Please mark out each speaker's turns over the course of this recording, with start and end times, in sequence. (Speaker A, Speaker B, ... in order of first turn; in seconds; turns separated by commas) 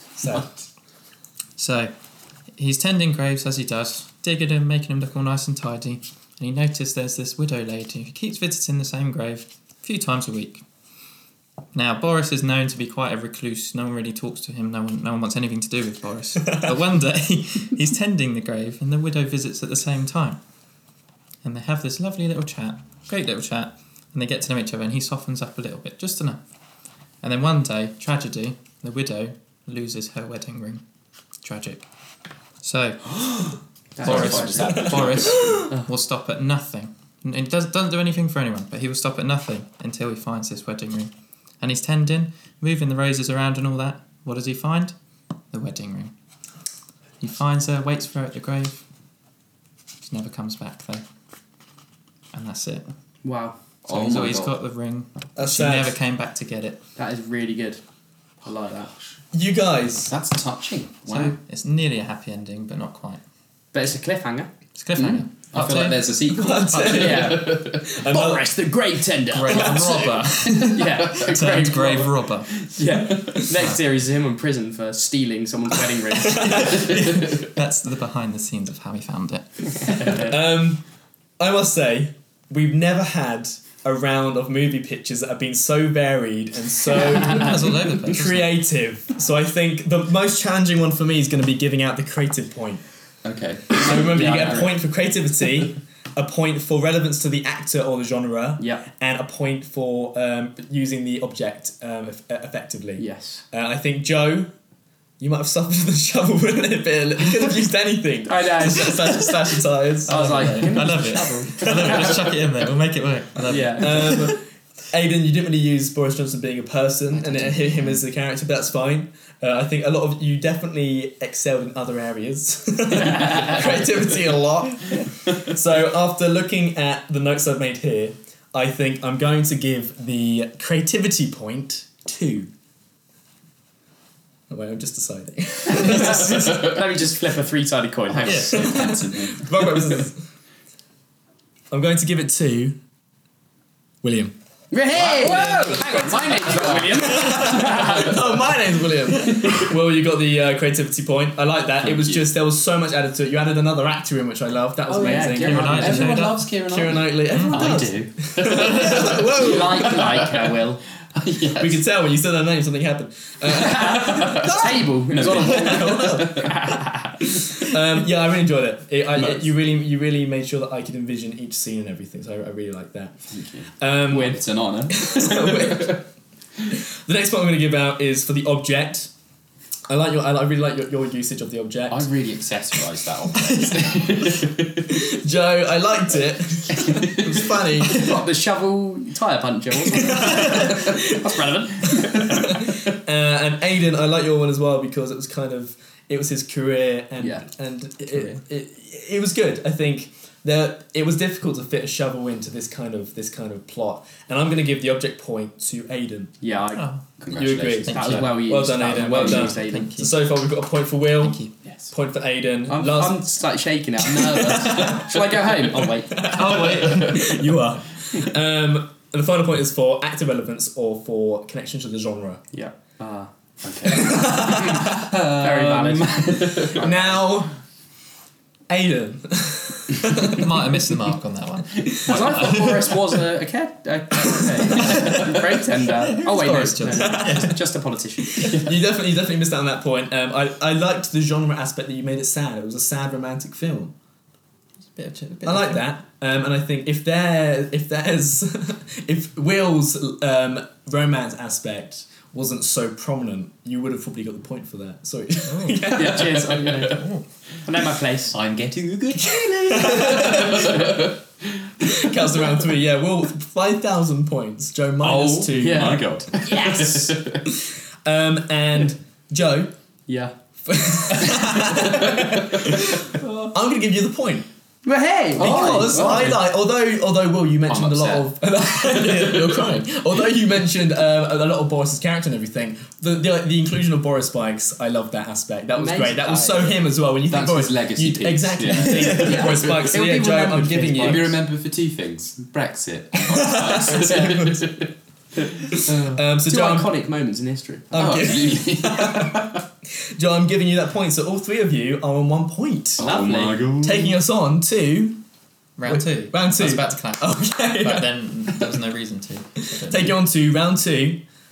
Speaker A: 0.2-0.5, Speaker B: 1.6-1.9, Speaker B: 2.5-10.6, Speaker B: 11.7-20.4, Speaker B: 21.4-26.4, Speaker B: 27.2-30.8, Speaker B: 31.4-31.9, Speaker B: 32.6-33.5, Speaker C: 34.0-35.0, Speaker D: 34.0-35.6, Speaker B: 34.0-44.9, Speaker A: 34.7-35.7, Speaker B: 45.5-46.1, Speaker B: 47.2-48.8, Speaker B: 50.0-51.0, Speaker B: 52.3-52.9, Speaker C: 53.2-53.5, Speaker D: 53.8-54.5, Speaker B: 53.9-56.8, Speaker A: 55.4-55.9, Speaker C: 57.0-57.8, Speaker C: 58.4-58.9, Speaker A: 59.3-60.1, Speaker D: 60.1-61.3, Speaker B: 61.1-63.2, Speaker C: 63.7-64.5, Speaker B: 64.8-66.1, Speaker D: 64.9-67.8, Speaker A: 66.3-68.5, Speaker B: 66.7-67.4, Speaker C: 66.9-72.1, Speaker B: 69.3-72.7, Speaker C: 72.7-76.9, Speaker D: 73.1-73.4, Speaker A: 76.3-77.2, Speaker B: 76.7-80.2, Speaker C: 80.0-80.3, Speaker A: 80.2-80.8, Speaker A: 81.4-92.8, Speaker B: 86.9-88.6, Speaker D: 93.2-94.7, Speaker A: 93.7-104.5, Speaker C: 94.1-94.7, Speaker C: 98.6-98.8, Speaker C: 103.0-103.4, Speaker A: 105.2-112.1, Speaker C: 108.2-109.4, Speaker C: 110.1-112.2, Speaker B: 110.1-114.4, Speaker C: 113.5-114.4, Speaker A: 113.8-132.5, Speaker B: 117.3-118.0, Speaker C: 123.0-123.9, Speaker A: 134.5-136.6, Speaker C: 135.7-138.7, Speaker D: 138.1-140.0, Speaker A: 138.3-140.2, Speaker A: 141.7-142.8, Speaker A: 144.0-144.3, Speaker C: 144.7-148.2, Speaker D: 144.9-148.4, Speaker A: 147.0-160.0, Speaker D: 149.1-149.7, Speaker D: 151.8-152.2, Speaker C: 154.9-155.8, Speaker D: 154.9-161.8, Speaker B: 155.3-156.5, Speaker B: 157.3-157.8, Speaker C: 159.3-160.8, Speaker A: 161.6-166.5, Speaker C: 163.5-167.2, Speaker D: 163.7-166.5, Speaker A: 167.2-173.2, Speaker D: 169.2-169.5, Speaker D: 173.3-176.0, Speaker A: 173.8-176.0, Speaker A: 176.7-179.1, Speaker A: 179.9-182.1, Speaker D: 181.9-184.9, Speaker A: 184.9-188.1, Speaker D: 186.7-187.5, Speaker C: 187.8-192.6, Speaker A: 190.1-191.2, Speaker A: 191.9-206.3, Speaker C: 197.2-197.4, Speaker C: 206.4-206.9, Speaker B: 206.7-207.0, Speaker D: 207.2-208.3, Speaker A: 207.3-211.4, Speaker C: 207.9-209.9, Speaker B: 208.0-208.4, Speaker D: 209.0-209.4, Speaker B: 209.1-210.2, Speaker B: 211.2-211.5, Speaker A: 211.9-213.2, Speaker C: 212.7-216.6, Speaker A: 214.2-215.1, Speaker A: 215.8-222.4, Speaker B: 216.3-217.4, Speaker D: 216.8-217.2, Speaker C: 222.5-223.3, Speaker D: 223.6-227.2, Speaker A: 224.0-224.9, Speaker C: 224.7-226.9, Speaker A: 226.8-227.5, Speaker A: 228.7-230.8, Speaker B: 230.2-233.0, Speaker A: 231.8-232.2, Speaker C: 232.1-238.7, Speaker B: 234.8-235.2, Speaker B: 235.8-237.6, Speaker A: 237.0-237.5, Speaker A: 238.3-243.9, Speaker B: 244.9-245.8, Speaker A: 245.4-256.4, Speaker B: 255.5-255.8, Speaker C: 255.9-257.1, Speaker D: 256.0-257.1, Speaker C: 257.6-258.4, Speaker D: 258.3-262.6, Speaker A: 259.7-260.8, Speaker A: 261.8-266.0, Speaker D: 265.0-267.5, Speaker C: 265.5-267.2, Speaker A: 267.5-269.7, Speaker C: 270.1-270.3, Speaker A: 270.6-274.4, Speaker D: 271.4-272.8, Speaker C: 274.8-276.4, Speaker A: 275.4-291.4, Speaker D: 275.4-276.4, Speaker D: 277.7-278.3, Speaker D: 278.8-279.8, Speaker C: 285.7-286.9, Speaker D: 287.3-294.9, Speaker C: 288.9-291.2, Speaker A: 293.3-294.6, Speaker C: 293.9-294.4, Speaker D: 295.4-295.7, Speaker A: 295.6-296.9, Speaker C: 295.9-298.1, Speaker A: 297.9-305.2, Speaker D: 297.9-299.6, Speaker D: 303.0-304.2, Speaker C: 303.0-303.6, Speaker B: 305.8-310.2, Speaker A: 305.9-308.6, Speaker A: 309.8-311.2